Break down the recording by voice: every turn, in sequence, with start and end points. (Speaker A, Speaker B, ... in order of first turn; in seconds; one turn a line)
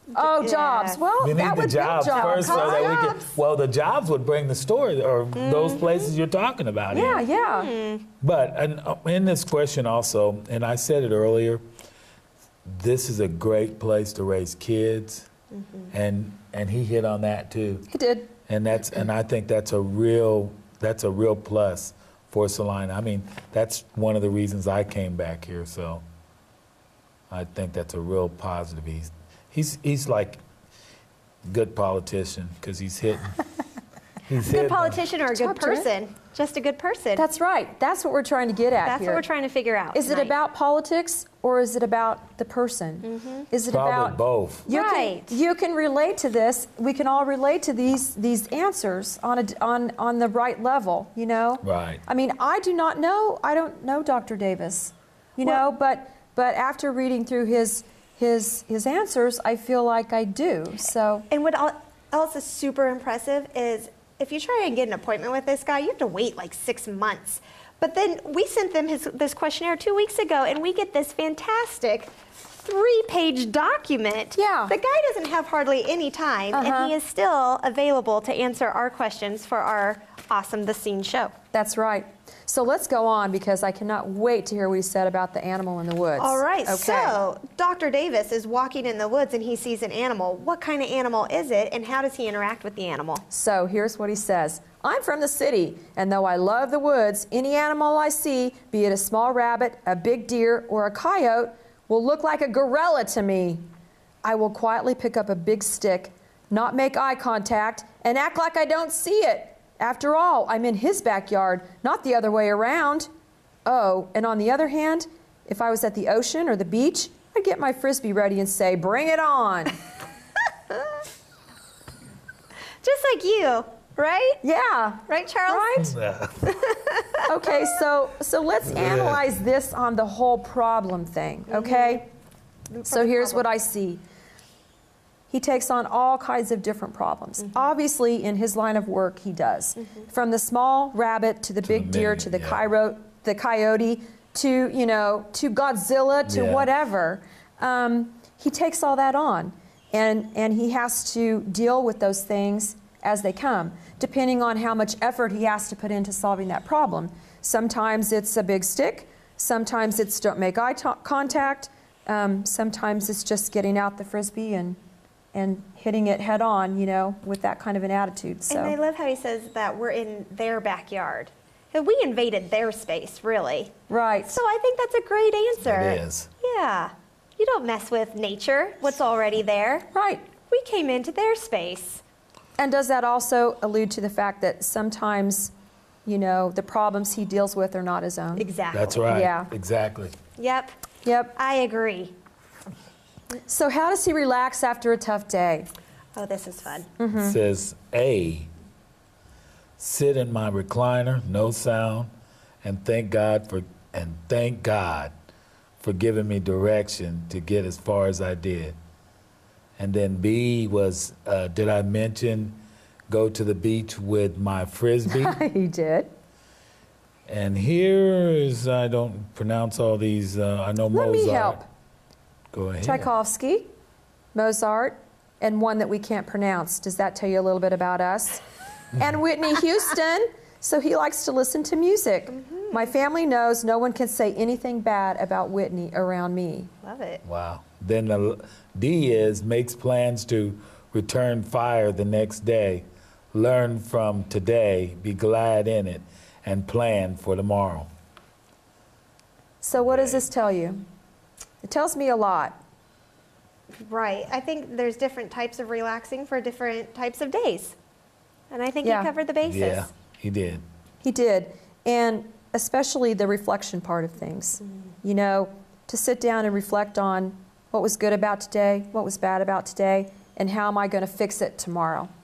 Speaker A: 0.1-1.0
Speaker B: 0.1-3.1
Speaker C: 1.2-7.2
Speaker A: 2.0-3.3
Speaker A: 5.3-6.1
Speaker B: 6.9-7.7
Speaker A: 7.0-8.1
Speaker C: 8.2-11.6
Speaker C: 12.7-15.3
Speaker A: 15.5-15.9
Speaker C: 15.9-17.9
Speaker B: 17.9-18.3
Speaker C: 18.5-26.0
Speaker C: 27.3-30.4
Speaker C: 31.5-33.4
Speaker C: 34.3-35.0
Speaker A: 34.4-37.3
Speaker B: 35.3-35.9
Speaker B: 37.2-39.2
Speaker A: 38.8-40.4
Speaker B: 39.9-61.3
Speaker A: 43.0-43.5
Speaker C: 43.7-44.7
Speaker A: 44.7-45.3
Speaker C: 51.6-52.0
Speaker A: 61.3-81.3
Speaker B: 74.4-74.7
Speaker B: 76.5-76.9
Speaker B: 81.5-87.2
Speaker A: 86.2-93.2
Speaker B: 93.3-103.6
Speaker B: 104.2-113.1
Speaker B: 113.7-119.8
Speaker A: 122.8-124.4
Speaker B: 124.4-125.9
Speaker A: 125.1-125.8
Speaker C: 125.8-126.5
Speaker A: 126.5-127.6
Speaker B: 127.3-132.1
Speaker C: 128.7-129.2
Speaker A: 131.5-132.0
Speaker A: 132.7-133.5
Speaker B: 132.8-134.0
Speaker B: 135.3-164.8
Speaker C: 141.6-142.6
Speaker C: 146.3-146.7
Speaker B: 165.3-168.8
Speaker A: 168.5-173.7
Speaker B: 173.9-174.4
Speaker A: 174.3-179.9
Speaker C: 175.7-176.3
Speaker B: 179.9-180.2
Speaker A: 180.5-182.0
Speaker B: 182.6-185.5
Speaker B: 186.1-188.5
Speaker A: 188.4-189.1
Speaker C: 188.7-190.1
Speaker B: 189.1-189.5
Speaker A: 190.4-190.7
Speaker B: 191.1-191.3
Speaker A: 191.3-192.2
Speaker B: 193.5-195.7
Speaker A: 196.2-196.9
Speaker B: 197.0-197.4
Speaker C: 197.1-198.5
Speaker C: 199.8-202.1
Speaker C: 202.6-205.1
Speaker C: 205.8-208.8
Speaker C: 209.8-215.3
Speaker B: 215.1-216.1
Speaker C: 217.3-221.6
Speaker B: 220.9-221.7
Speaker C: 222.5-223.1
Speaker B: 222.8-223.7
Speaker B: 224.3-228.4
Speaker B: 228.9-236.7
Speaker A: 232.3-232.9
Speaker A: 236.8-237.2
Speaker C: 237.2-247.9
Speaker B: 249.6-250.8
Speaker C: 249.8-250.2
Speaker B: 251.6-252.6
Speaker A: 253.8-257.8
Speaker A: 258.5-259.9
Speaker B: 258.8-259.1
Speaker C: 259.4-260.6
Speaker B: 261.0-272.1